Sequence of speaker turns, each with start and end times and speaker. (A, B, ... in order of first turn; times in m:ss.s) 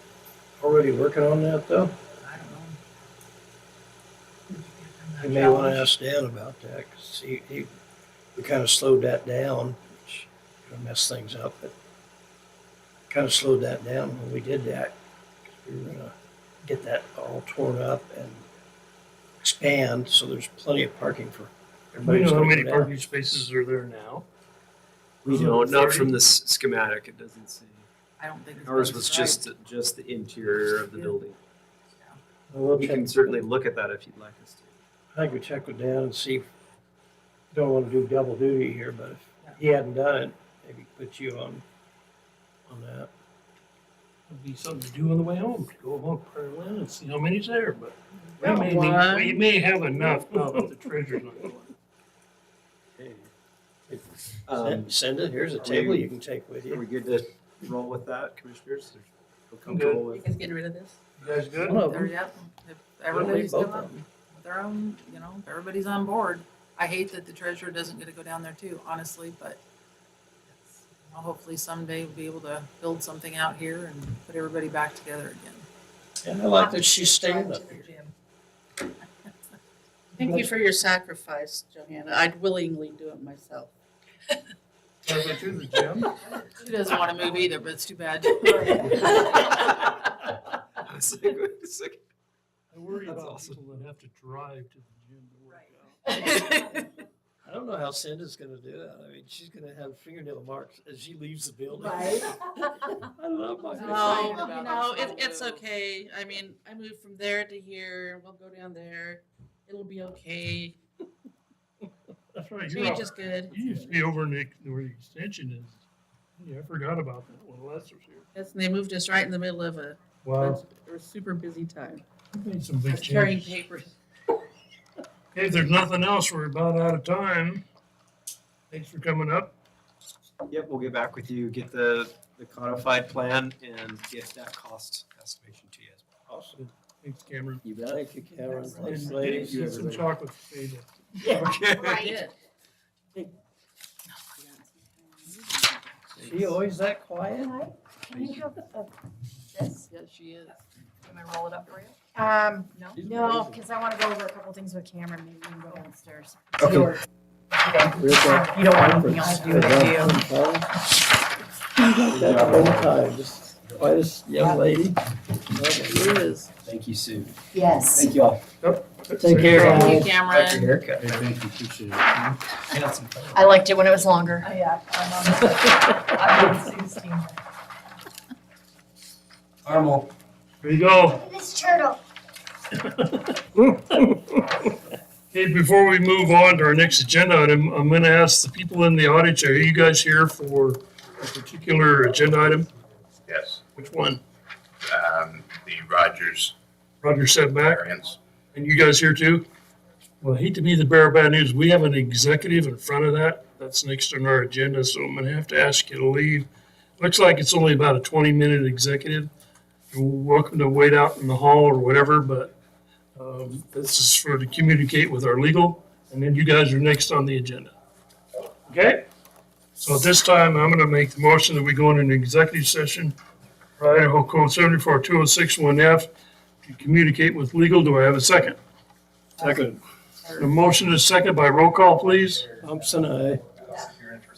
0:00.6-0:01.9 A
0:02.2-0:02.8 B
0:04.5-0:05.9 B
0:05.2-0:07.7 A
0:08.3-0:11.7 A
0:13.1-0:16.1 A
0:16.6-0:18.4 A
0:19.4-0:23.4 A
0:22.0-0:24.2 C
0:25.2-0:27.9 D
0:25.3-0:26.2 C
0:28.2-0:29.4 B
0:28.6-0:31.4 D
0:32.5-0:33.4 A
0:32.8-0:34.8 D
0:35.1-0:36.5 A
0:37.5-0:41.6 A
0:42.7-0:43.1 A
0:44.3-0:51.7 C
0:48.4-0:48.6 B
0:48.4-0:49.4 E
0:53.0-0:53.3 A
0:53.9-0:56.8 A
0:54.4-0:54.9 D
0:55.6-0:56.1 D
0:56.7-1:00.3 D
0:59.6-1:00.1 C
1:00.1-1:00.9 E
1:01.2-1:01.8 C
1:01.6-1:02.1 A
1:01.7-1:09.6 B
1:03.1-1:03.9 A
1:10.5-1:15.6 B
1:16.2-1:17.8 A
1:16.6-1:18.1 B
1:20.2-1:23.7 E
1:25.0-1:26.1 C
1:26.4-1:29.6 B
1:28.9-1:32.0 D
1:32.7-1:36.1 C
1:32.9-1:33.6 D
1:36.1-1:36.8 B
1:37.4-1:42.4 A
1:41.8-1:42.4 F
1:43.0-1:44.5 A
1:43.8-1:50.8 E
1:43.8-1:45.6 B
1:44.0-1:45.2 F
1:52.3-1:55.8 C
1:52.7-1:54.0 E
1:56.4-1:58.3 C
1:58.3-2:02.0 E
2:00.2-2:00.6 C
2:02.3-2:03.6 C
2:02.9-2:03.9 E
2:05.3-2:07.6 C
2:08.7-2:09.5 C
2:10.5-2:16.1 D
2:16.3-2:16.6 A
2:16.6-2:17.6 C
2:17.6-2:18.0 D
2:17.8-2:19.6 A
2:18.7-2:20.1 D
2:18.8-2:21.5 C
2:21.2-2:22.2 F
2:21.4-2:22.0 D
2:22.0-2:22.3 E
2:26.2-2:27.6 A
2:26.2-2:26.5 D
2:27.4-2:28.9 F
2:29.5-2:29.9 F
2:30.0-2:30.5 B
2:31.0-2:40.2 F
2:32.9-2:33.6 D
2:36.6-2:36.9 D
2:37.9-2:40.7 A
2:41.8-2:46.3 A
2:42.1-2:43.0 D
2:45.8-2:46.5 B
2:46.6-2:47.4 D
2:47.5-2:48.1 F
2:47.9-2:48.4 D
2:48.6-2:50.0 C
2:49.2-2:50.1 A
2:49.5-2:50.8 B
2:50.0-2:53.5 D
2:53.3-2:54.5 F
2:54.4-2:57.4 B
2:59.6-3:00.1 D
3:00.6-3:01.2 C
3:01.2-3:02.0 F
3:02.8-3:04.5 C
3:05.3-3:12.7 C
3:13.3-3:13.6 G
3:13.8-3:14.2 C
3:14.8-3:16.5 G
3:17.0-3:17.9 C
3:17.7-3:18.2 G
3:18.5-3:19.4 C
3:20.2-3:26.5 C
3:27.0-3:29.3 C
3:29.9-3:32.5 C
3:33.2-3:37.7 C
3:38.7-3:39.0 C
3:39.8-3:43.2 C
3:43.8-3:46.1 C
3:46.6-3:48.6 C
3:49.4-3:49.8 A
3:50.2-3:50.5 B
3:50.4-3:52.5 C
3:52.6-3:53.4 A